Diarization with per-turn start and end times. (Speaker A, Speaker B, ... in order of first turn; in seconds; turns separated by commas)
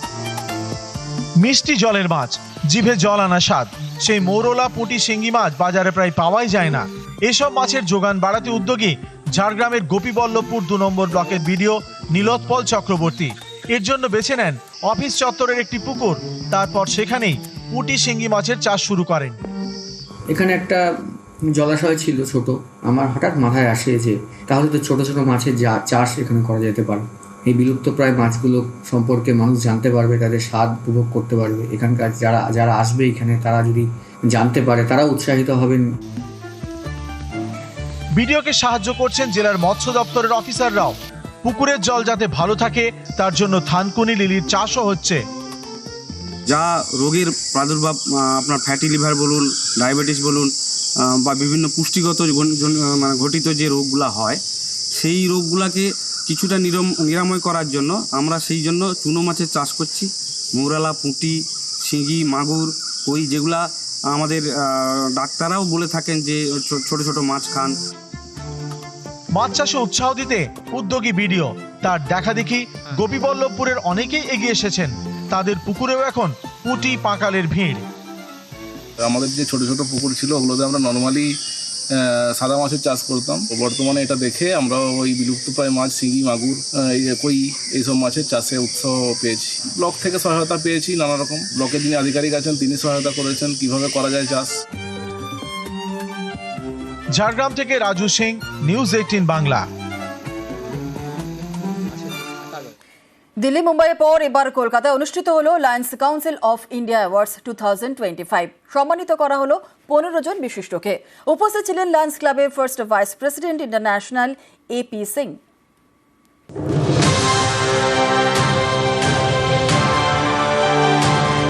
Speaker A: 1.4-19.4, Speaker B: 20.3-20.9, Speaker B: 21.5-35.8, Speaker A: 38.1-45.2, Speaker C: 46.5-50.5, Speaker C: 51.0-54.4, Speaker C: 55.0-67.8, Speaker A: 69.3-77.8, Speaker D: 79.0-81.3, Speaker D: 82.0-94.5, Speaker A: 97.1-99.7, Speaker E: 103.4-115.4